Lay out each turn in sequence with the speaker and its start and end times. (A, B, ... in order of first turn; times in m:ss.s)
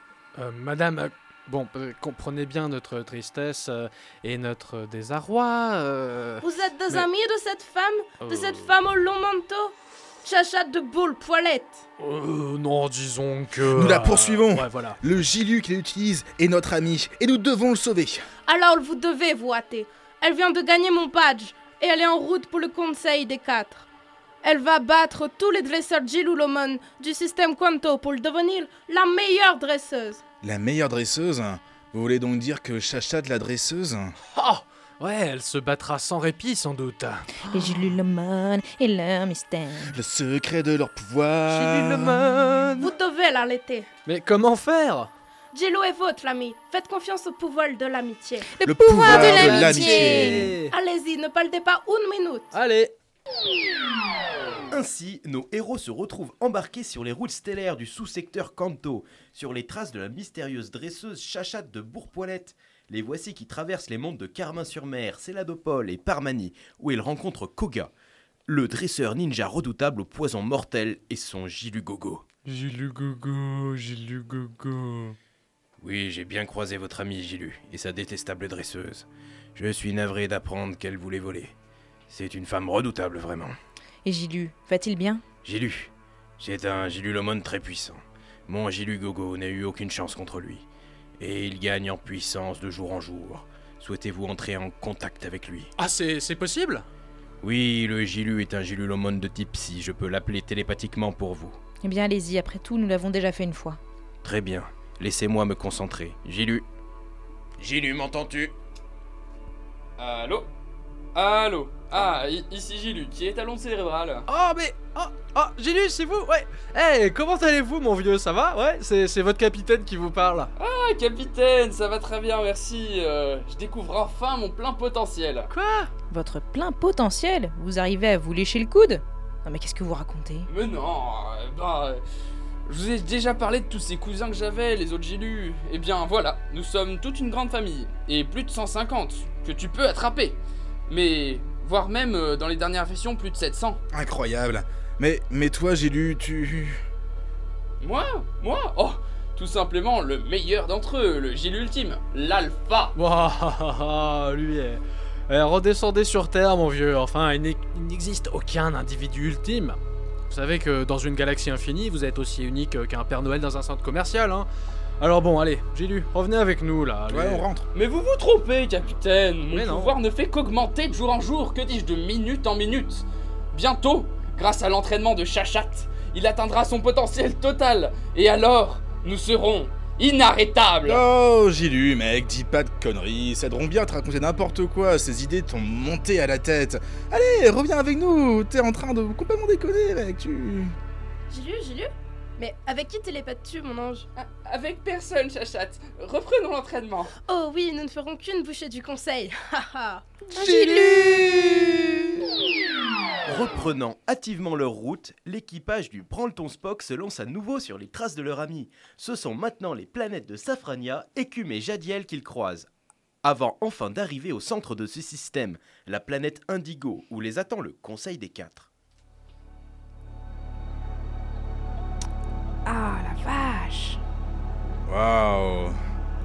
0:00.4-0:07.1 A
0:06.4-0:11.8 B
0:08.2-0:08.7 A
0:12.0-0:15.0 A
0:13.7-0:18.2 C
0:18.4-0:23.9 B
0:24.4-0:30.2 B
0:30.4-0:34.2 C
0:34.3-0:37.8 A
0:37.5-0:39.9 D
0:39.9-0:42.7 C
0:41.5-0:42.9 A
0:42.8-0:43.9 B
0:44.0-0:45.1 A
0:45.5-0:48.5 B
0:48.5-0:50.5 D
0:48.6-0:50.5 C
0:49.0-0:50.7 A
0:50.6-0:52.5 B
0:52.5-0:52.9 A
0:54.7-1:07.9 E
1:08.5-1:12.2 E
1:12.4-1:15.2 A
1:15.8-1:21.5 E
1:22.1-1:23.6 E
1:24.0-1:25.2 D
1:25.4-1:30.6 E
1:31.2-1:35.7 E
1:35.8-1:36.9 A
1:37.4-1:41.6 E
1:41.8-1:43.8 D
1:44.2-1:46.6 E
1:47.6-1:48.5 E
1:50.0-1:50.5 F
1:51.1-1:54.2 F
1:54.3-2:00.5 A
2:00.6-2:05.5 F
2:05.5-2:05.9 A
2:06.1-2:10.5 D
2:10.5-2:12.0 F
2:12.7-2:23.8 F
2:23.9-2:26.8 C
2:27.8-2:33.0 F
2:33.0-2:44.5 A
2:45.0-2:47.4 A
2:47.1-2:47.6 C
2:47.7-3:01.0 F
2:49.5-2:50.0 A
3:00.8-3:10.7 C
3:11.3-3:14.1 B
3:14.2-3:17.1 F
3:17.3-3:20.2 B
3:20.3-3:21.7 C
3:20.3-3:21.8 D
3:23.2-3:32.7 E
3:33.2-3:38.7 E
3:42.6-3:44.0 D
3:44.8-3:45.8 C